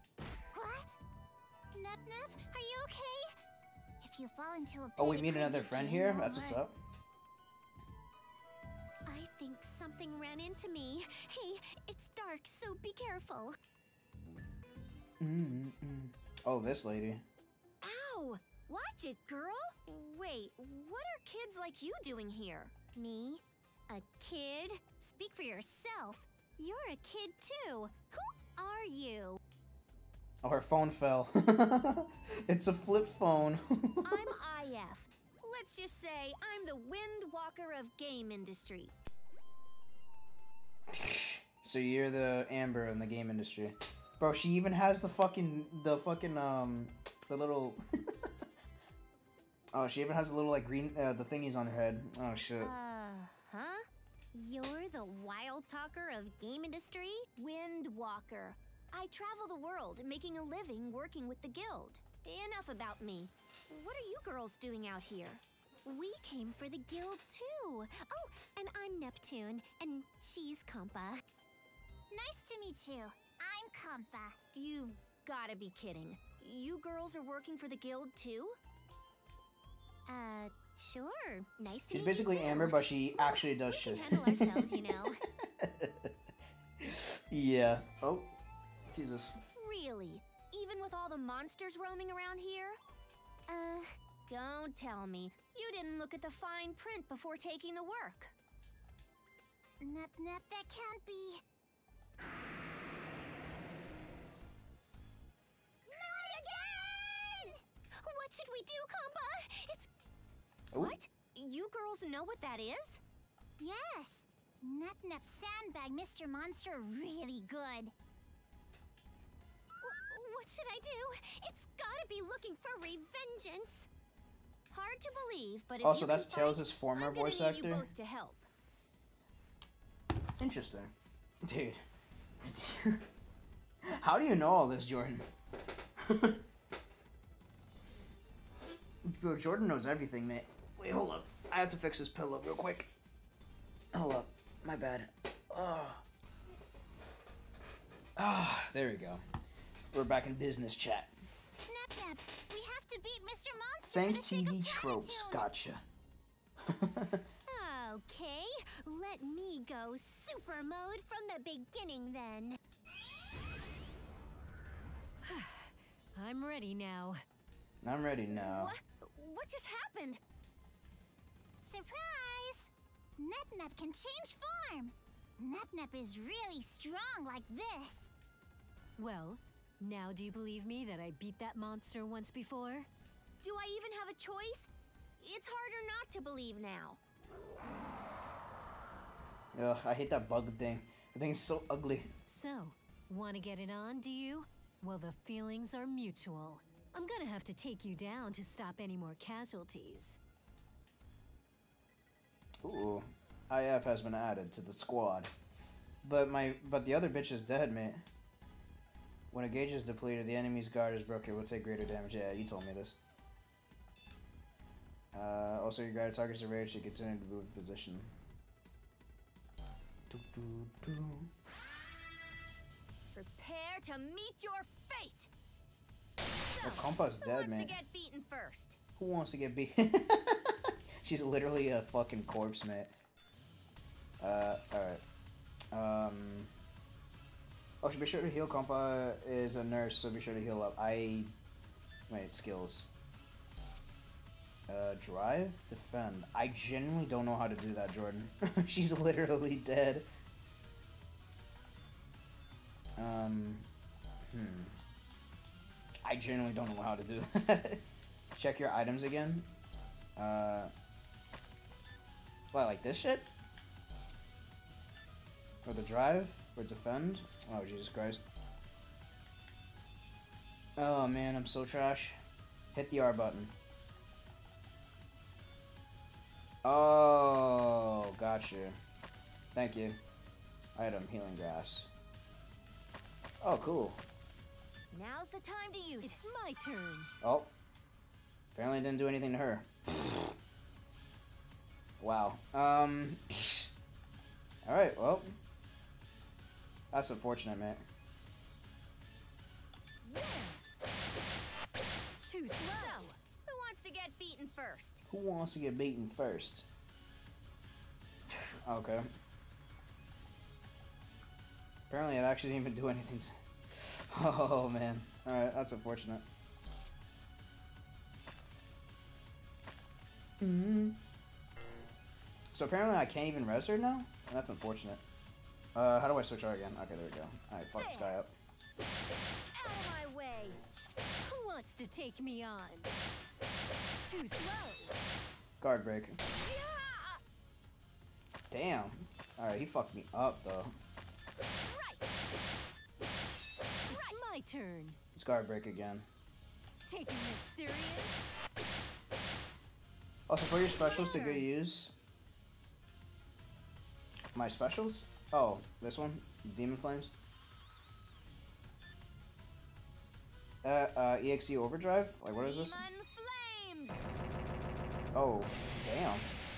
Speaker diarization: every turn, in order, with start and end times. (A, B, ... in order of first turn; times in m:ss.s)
0:00.5-0:00.9 A
0:01.7-0:03.3 A
0:04.0-0:06.6 A
0:05.0-0:06.7 B
0:09.1-0:13.6 C
0:15.2-0:17.2 B
0:17.8-0:29.4 C
0:30.4-0:34.3 B
0:34.0-0:38.9 C
0:40.9-0:47.8 B
0:49.7-0:52.7 B
0:52.6-1:11.2 C
1:12.1-1:14.4 A
1:14.5-1:18.6 C
1:20.1-1:25.2 C
1:21.9-1:25.0 B
1:25.6-1:26.1 B
1:26.8-1:28.3 B
1:28.9-1:29.4 B
1:29.6-1:32.8 C
1:33.5-1:38.3 C
1:39.8-1:41.4 A
1:45.9-1:49.9 C
1:50.7-1:51.0 B
1:50.8-1:53.0 C
1:53.6-1:57.9 A
1:59.8-2:03.9 C
2:04.7-2:08.5 C
2:05.8-2:07.9 B
2:10.4-2:10.9 B
2:11.5-2:11.8 B
2:12.5-2:13.0 B
2:13.9-2:15.3 B
2:16.0-2:16.4 B
2:19.0-2:22.9 B
2:23.9-2:26.0 B
2:28.2-2:29.2 B
2:29.9-2:31.1 B
2:31.6-2:35.5 A
2:33.9-2:35.8 B
2:36.6-2:37.2 B
2:37.5-2:42.6 C
2:45.2-2:47.2 D
2:47.8-2:48.8 B
2:48.3-2:50.2 C
2:51.6-2:58.1 A
2:59.0-3:02.9 D
3:03.4-3:04.7 C
3:05.2-3:07.0 C
3:09.6-3:12.1 B
3:12.3-3:20.2 D
3:22.6-3:25.3 B
3:26.0-3:28.0 B
3:29.3-3:33.0 B
3:35.1-3:38.1 B
3:40.1-3:41.3 B
3:43.2-3:45.3 C
3:46.4-3:48.8 C
3:46.6-3:47.8 B
3:49.0-3:52.9 B
3:54.2-3:55.0 B
3:55.7-3:56.5 B
3:57.8-4:01.3 B
4:02.1-4:02.9 B
4:04.7-4:10.1 B
4:13.0-4:13.7 B
4:14.3-4:14.8 B
4:16.0-4:17.8 B
4:18.4-4:19.5 B
4:20.2-4:20.7 B
4:22.5-4:23.3 B
4:25.6-4:28.2 B
4:30.8-4:32.2 B
4:32.7-4:33.5 B
4:36.6-4:38.8 B
4:39.6-4:40.0 B
4:40.8-4:41.9 B
4:43.4-4:44.0 B
4:44.9-4:46.3 C
4:46.0-4:47.1 D
4:47.2-4:47.5 B
4:48.6-4:50.2 B
4:52.0-4:53.7 B
4:54.6-4:55.3 B
4:56.9-4:57.8 B
5:00.1-5:00.6 D
5:02.2-5:03.2 D
5:02.8-5:05.0 C
5:05.1-5:06.7 B
5:08.7-5:09.1 B
5:11.9-5:16.2 B
5:20.4-5:21.0 B
5:22.5-5:25.0 B
5:25.8-5:28.3 B
5:27.8-5:28.1 D
5:29.5-5:30.6 D
5:31.2-5:32.9 D
5:34.1-5:34.9 D
5:35.6-5:36.2 B
5:36.4-5:37.2 D
5:38.5-5:40.8 B
5:41.3-5:42.1 D
5:43.9-5:45.0 D
5:43.9-5:44.2 C
5:45.2-5:46.1 B
5:46.9-5:48.3 D
5:50.3-5:51.9 B
5:50.9-5:51.4 D
5:54.4-5:57.1 B
6:00.6-6:02.8 B
6:02.5-6:03.9 C
6:05.1-6:06.3 B